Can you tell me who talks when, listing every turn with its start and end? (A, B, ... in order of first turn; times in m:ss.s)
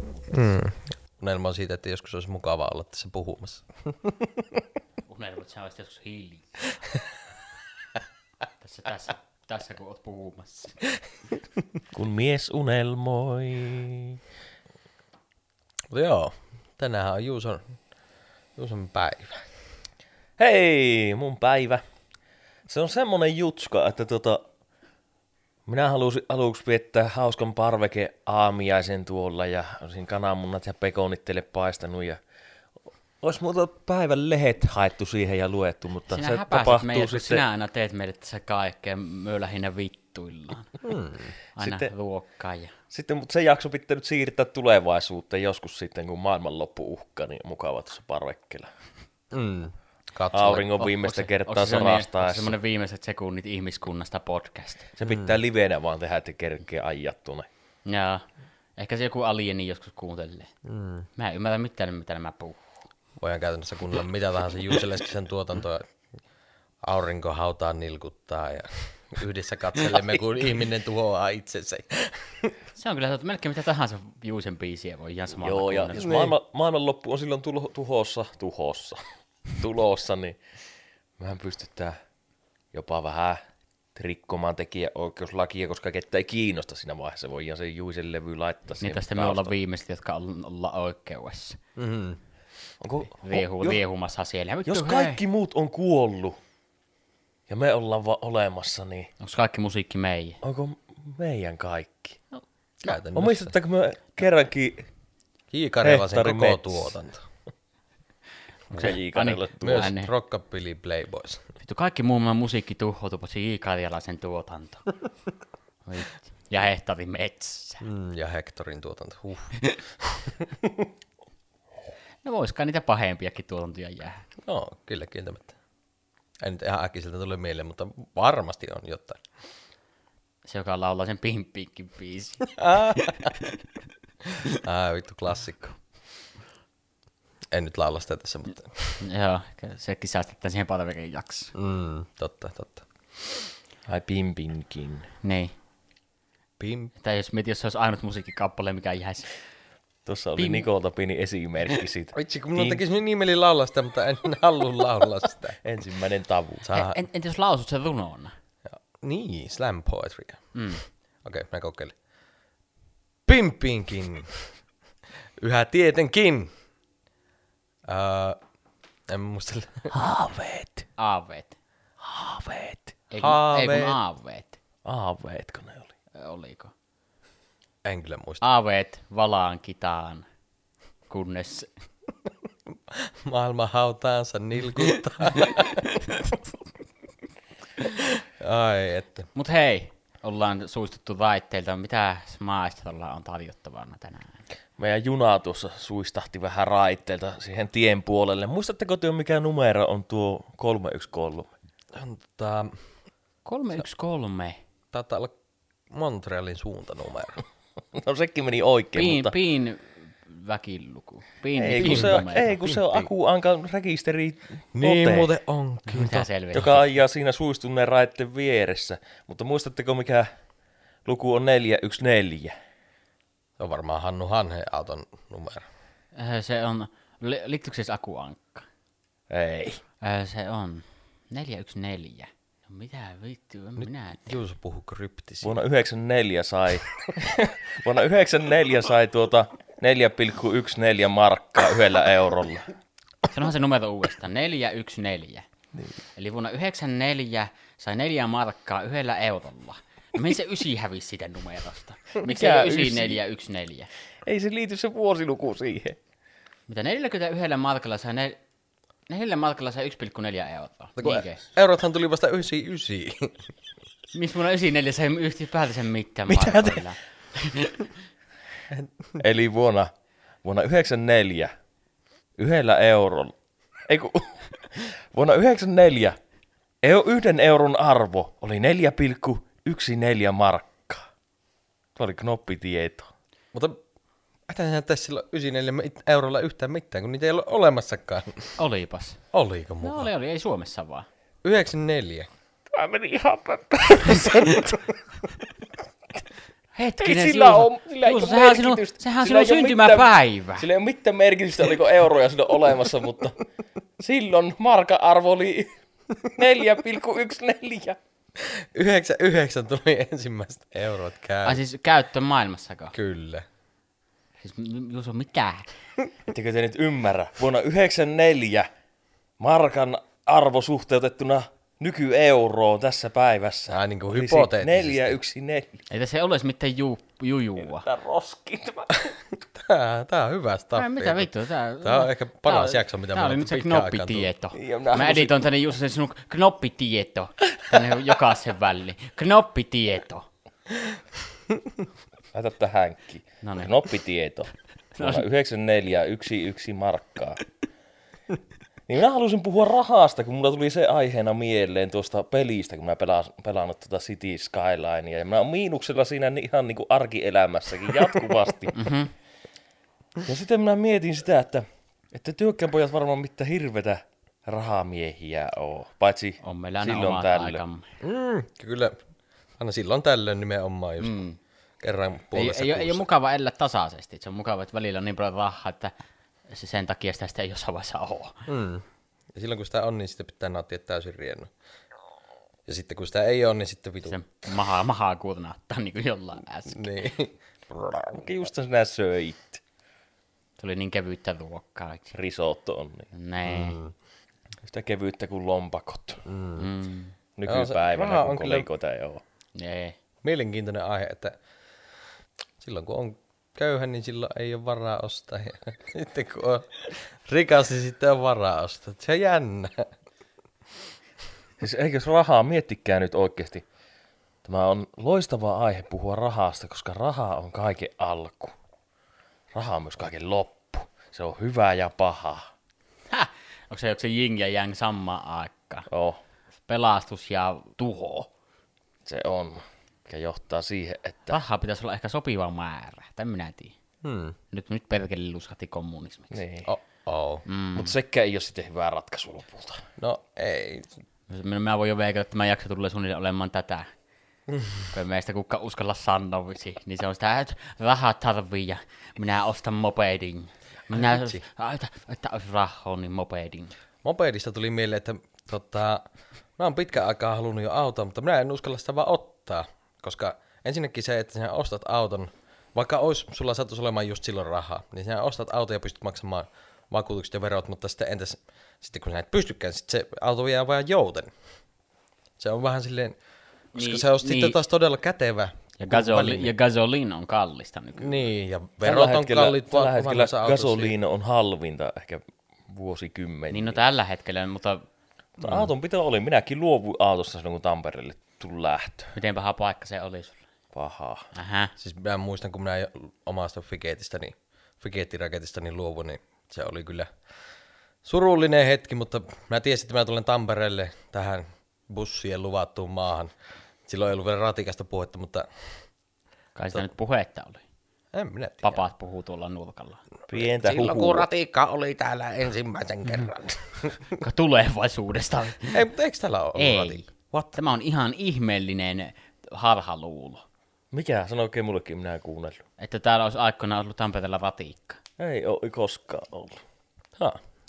0:00.3-0:04.6 A
0:05.1-0:06.8 B
0:08.6-0:10.8 B
0:11.9-0:14.2 C
0:15.9-0:17.8 A
0:18.6-0:19.5 A
0:20.4-0:21.8 C
0:22.7-0:24.4 C
0:25.7-0:32.2 C
0:33.2-0:37.4 C
0:36.1-0:40.8 B
0:40.8-0:41.3 A
0:41.6-0:42.7 B
0:41.6-0:41.9 C
0:42.9-0:48.7 C
0:49.3-0:51.0 A
0:50.3-0:52.6 C
0:51.1-0:54.9 B
0:54.9-0:57.5 C
0:55.0-0:55.4 A
0:57.8-0:58.2 B
0:58.8-1:00.5 B
1:00.6-1:01.1 A
1:01.2-1:02.6 B
1:03.2-1:05.9 A
1:06.8-1:12.6 A
1:12.8-1:16.0 B
1:15.4-1:20.4 C
1:16.0-1:16.3 A
1:21.2-1:22.0 C
1:22.7-1:23.4 C
1:24.0-1:29.5 C
1:28.8-1:31.6 B
1:31.8-1:32.2 A
1:32.8-1:33.8 C
1:33.2-1:35.2 B
1:34.7-1:36.4 C
1:37.5-1:39.1 C
1:39.2-1:40.4 B
1:40.4-1:42.2 C
1:42.8-1:43.5 A
1:43.1-1:44.9 C
1:45.5-1:47.2 A
1:45.8-1:46.9 C
1:48.7-1:50.1 B
1:48.7-1:49.9 C
1:49.6-1:51.4 A
1:51.6-1:54.9 B
1:55.8-1:57.8 B
1:57.8-2:00.9 A
2:02.2-2:04.3 B
2:04.4-2:05.5 A
2:06.4-2:09.2 A
2:10.4-2:13.5 B
2:12.6-2:13.3 A
2:14.6-2:15.8 A
2:17.5-2:19.0 A
2:19.0-2:21.5 B
2:21.5-2:22.8 A
2:23.9-2:25.1 C
2:25.2-2:25.5 B
2:26.6-2:26.9 A
2:27.0-2:29.3 B
2:30.0-2:32.8 C
2:30.4-2:30.7 B
2:32.1-2:35.6 A
2:35.6-2:36.6 C
2:36.6-2:37.0 A
2:36.7-2:38.3 B
2:38.7-2:40.5 A
2:40.5-2:40.8 B
2:41.2-2:41.9 A
2:43.2-2:44.5 A
2:45.4-2:46.5 A
2:47.9-2:48.4 A
2:49.1-2:49.9 A
2:49.9-2:50.9 C
2:51.0-2:51.6 B
2:52.0-2:53.0 C
2:53.1-2:54.6 B
2:53.2-2:54.0 A
2:54.8-2:55.9 C
2:56.1-2:56.7 B
2:57.8-2:58.4 A
2:58.4-3:00.2 B
3:01.1-3:01.7 B
3:02.9-3:06.4 A
3:07.8-3:09.3 A
3:09.3-3:14.4 B
3:14.8-3:21.5 C
3:21.9-3:22.8 A
3:23.4-3:24.6 B
3:24.9-3:25.3 A
3:25.9-3:27.4 A
3:27.9-3:29.4 C
3:29.0-3:32.6 B
3:31.6-3:35.3 C
3:31.8-3:33.1 A
3:34.7-3:36.3 A
3:35.9-3:36.8 B
3:36.5-3:40.3 C
3:41.0-3:42.5 C
3:43.6-3:45.6 A
3:46.1-3:48.7 B
3:49.3-3:49.8 C
3:50.0-3:54.4 B
3:53.8-3:55.6 A
3:55.4-4:02.7 C
4:03.3-4:05.4 B
4:06.1-4:13.9 B
4:12.2-4:13.2 C
4:14.2-4:16.0 C
4:16.7-4:18.4 B
4:19.1-4:21.4 B
4:21.0-4:23.4 A
4:24.1-4:27.9 B
4:26.3-4:26.8 C
4:28.7-4:29.2 A
4:29.2-4:29.9 C
4:30.4-4:31.5 C
4:32.4-4:33.3 C
4:33.9-4:36.2 C
4:36.8-4:41.0 C
4:42.0-4:43.1 C
4:43.5-4:43.8 A
4:44.5-4:48.6 A
4:48.6-4:49.2 B
4:49.3-4:50.1 A
4:49.8-4:51.1 B
4:51.4-4:52.3 A
4:52.7-4:54.6 C
4:54.3-4:54.7 A
4:56.7-5:00.7 B
4:57.0-5:03.4 C
5:04.0-5:05.8 C
5:06.3-5:08.0 C
5:08.4-5:11.6 A
5:11.4-5:12.9 B
5:12.9-5:13.4 A
5:14.4-5:15.7 B
5:16.3-5:18.7 C
5:19.4-5:25.8 C
5:23.7-5:25.1 A
5:25.9-5:27.9 B
5:27.6-5:29.1 C
5:29.4-5:31.3 A
5:30.8-5:40.2 B
5:31.8-5:34.3 A
5:34.5-5:35.3 C
5:42.3-5:47.4 C
5:43.4-5:43.7 B
5:44.9-5:45.2 B
5:48.9-5:58.8 C
5:58.7-5:59.1 B
6:00.2-6:07.6 C
6:06.4-6:07.9 B
6:08.0-6:09.0 A
6:09.6-6:11.2 A
6:11.0-6:11.4 B
6:11.8-6:13.0 A
6:12.3-6:15.9 B
6:16.5-6:18.5 B
6:18.5-6:21.5 A
6:22.7-6:24.2 A
6:24.0-6:27.0 B
6:26.7-6:28.3 A
6:28.1-6:29.6 C
6:30.6-6:32.1 B
6:32.1-6:33.1 C
6:33.1-6:33.8 B
6:33.4-6:33.9 A
6:34.6-6:36.2 C
6:36.2-6:36.7 A
6:36.6-6:37.2 B
6:37.4-6:39.2 C
6:37.4-6:38.7 A
6:39.6-6:40.0 B
6:40.2-6:41.4 A
6:42.6-6:49.9 A
6:51.6-6:53.6 C
6:54.4-6:58.6 C
6:59.5-7:02.5 C
7:03.1-7:05.9 B
7:05.9-7:06.2 C
7:06.7-7:08.3 B
7:09.1-7:11.4 C
7:11.3-7:13.7 B
7:14.0-7:14.4 A
7:14.5-7:16.4 B
7:16.3-7:16.7 C
7:16.7-7:17.4 A
7:17.4-7:17.9 B
7:17.7-7:19.8 C
7:20.0-7:20.9 A
7:21.3-7:23.9 B
7:24.9-7:33.7 B
7:30.9-7:31.4 A
7:34.0-7:36.0 A
7:36.6-7:51.3 A
7:52.4-7:53.2 A
7:53.8-7:54.6 B
7:53.8-7:56.5 A
7:55.8-7:58.3 B
7:58.0-8:00.9 A
7:58.8-8:03.8 C
8:03.5-8:04.8 B
8:05.4-8:09.1 C
8:09.1-8:10.4 B
8:10.7-8:11.3 C
8:11.3-8:11.7 B
8:11.8-8:17.1 A
8:18.0-8:23.3 A
8:23.9-8:25.5 A
8:26.5-8:27.6 B
8:28.1-8:28.8 A
8:28.6-8:30.0 B
8:30.3-8:31.3 C
8:30.3-8:34.2 A
8:34.1-8:35.8 B
8:35.7-8:37.6 A
8:36.6-8:40.4 B
8:40.9-8:42.6 C
8:42.8-8:45.0 B
8:45.2-8:46.6 C